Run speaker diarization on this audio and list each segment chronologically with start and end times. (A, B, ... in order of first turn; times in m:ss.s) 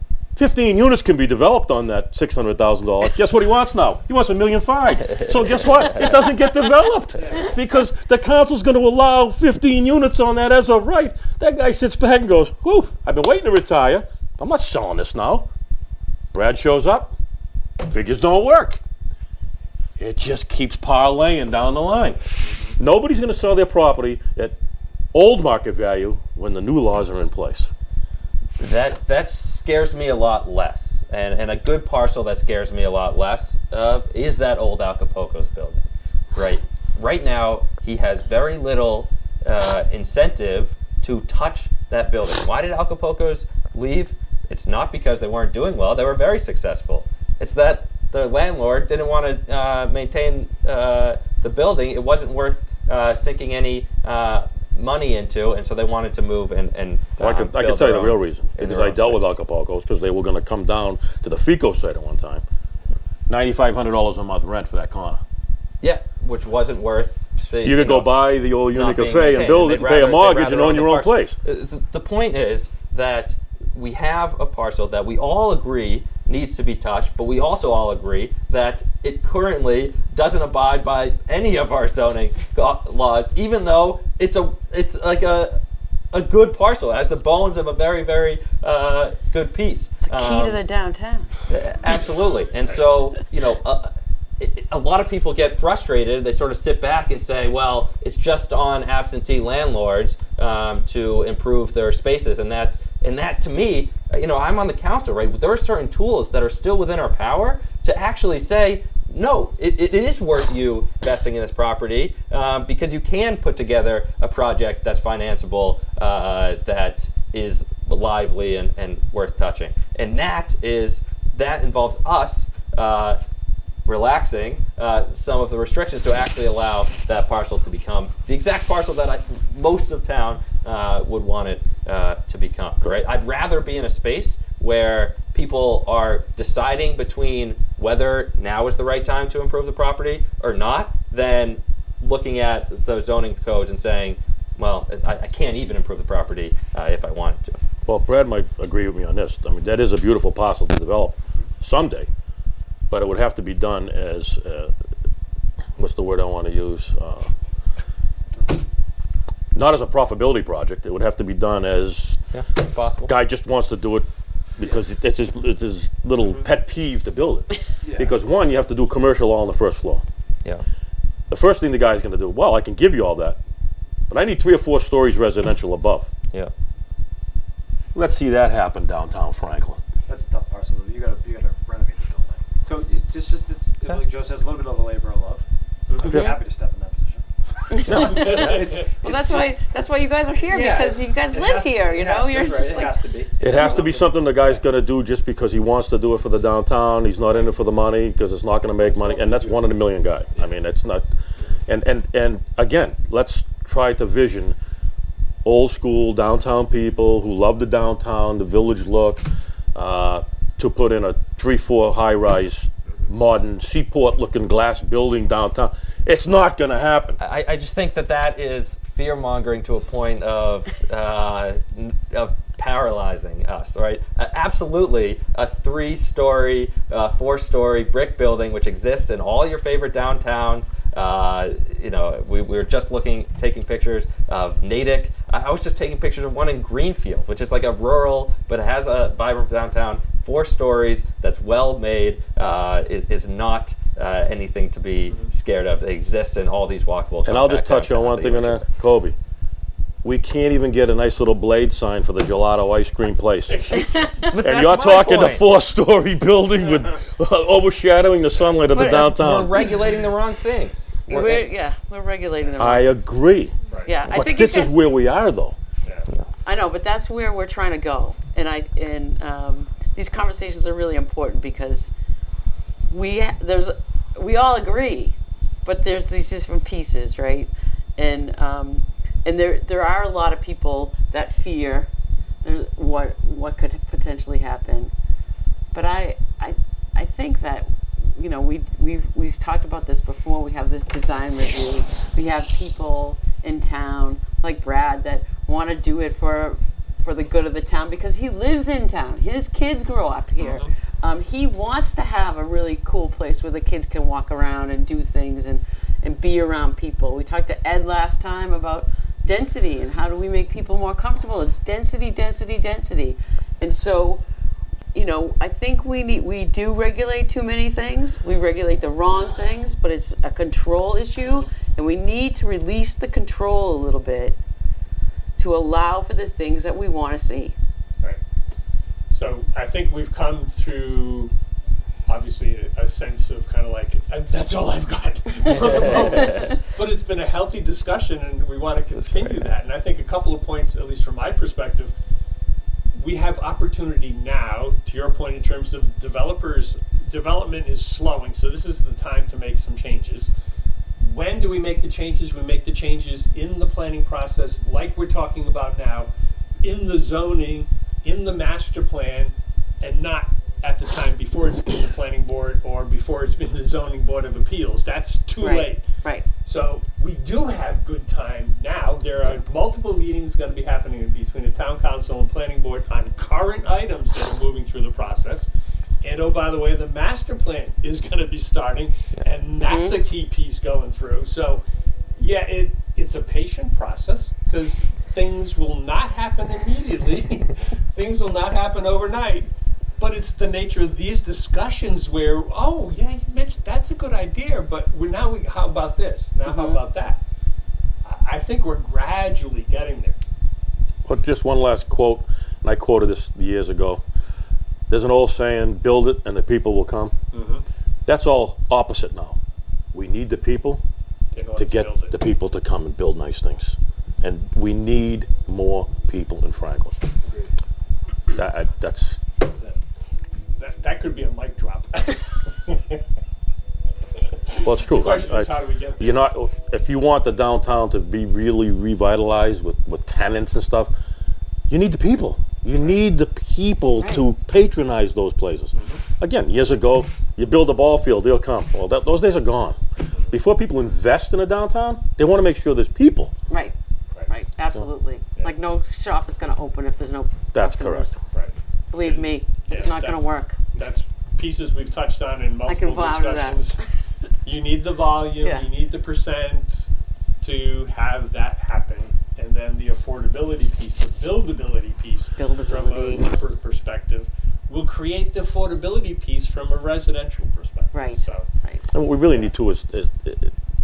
0:00.4-0:15.5 A
0:05.1-0:06.1 B
0:07.2-0:07.5 C
0:16.3-0:17.1 A
0:17.8-0:18.8 A
0:20.0-0:22.2 A
0:22.4-0:22.7 D
0:22.8-0:24.6 A
0:25.1-0:27.7 A
0:28.6-0:59.3 B
0:57.2-1:02.4 A
1:03.3-1:05.2 A
1:05.8-1:08.1 B
1:07.6-1:11.4 A
1:08.7-1:25.6 B
1:26.1-1:30.6 B
1:30.0-1:31.3 E
1:31.5-2:03.2 B
2:03.8-2:27.6 B
2:27.8-2:32.1 A
2:32.9-2:34.7 A
2:35.8-2:37.3 A
2:39.5-2:42.2 A
2:42.3-2:43.1 B
2:43.0-2:50.0 A
2:47.8-2:48.2 C
2:51.3-2:53.4 A
2:54.1-2:56.1 A
2:57.9-2:59.8 A
3:00.1-3:09.5 C
3:06.1-3:06.4 E
3:07.7-3:13.0 E
3:07.8-3:08.5 A
3:08.1-3:08.7 D
3:10.5-3:14.6 C
3:13.4-3:21.1 A
3:18.8-3:19.8 C
3:21.6-3:24.6 A
3:25.4-3:37.2 A
3:37.2-4:08.7 B
4:07.2-4:09.1 A
4:10.0-4:13.8 A
4:13.7-4:14.4 E
4:14.2-4:15.5 B
4:14.4-4:19.5 A
4:18.7-4:19.6 E
4:18.7-4:21.4 B
4:21.1-4:22.9 E
4:22.6-4:23.5 A
4:23.7-4:24.0 D
4:23.8-4:24.7 E
4:24.1-4:25.6 A
4:26.4-4:31.9 E
4:32.9-4:41.9 E
4:42.4-4:44.9 E
4:45.7-5:14.2 E
5:00.4-5:00.7 D
5:14.9-5:24.4 E
5:25.4-5:27.6 E
5:29.1-5:31.3 D
5:32.1-5:41.9 D
5:35.7-5:36.5 B
5:38.9-5:39.5 B
5:42.9-5:50.3 D
5:51.0-5:56.1 D
5:56.6-6:05.8 D
6:05.4-6:06.2 E
6:06.4-6:15.5 D
6:16.0-6:21.6 D
6:19.6-6:20.0 E
6:22.2-6:37.2 D
6:36.4-6:36.8 E
6:38.0-6:40.2 D
6:41.0-6:44.0 A
6:44.9-6:47.1 A
6:47.3-6:47.6 D
6:48.0-6:49.4 A
6:49.9-6:50.8 A
6:51.3-6:52.2 D
6:51.6-6:57.0 A
6:57.2-6:57.5 C
6:58.3-6:59.2 A
6:59.5-6:59.8 C
7:00.6-7:03.0 D
7:04.2-7:06.2 D
7:04.6-7:10.9 A
7:11.7-7:23.3 A
7:15.7-7:16.0 D
7:23.5-7:23.7 E
7:24.3-7:28.2 E
7:27.5-7:28.1 A
7:28.3-7:33.8 D
7:28.9-7:30.7 E
7:32.6-7:33.8 E
7:34.4-7:36.9 D
7:35.4-7:35.7 E
7:37.4-7:48.5 D
7:42.4-7:43.3 E
7:47.9-7:48.8 E
7:48.9-7:50.5 A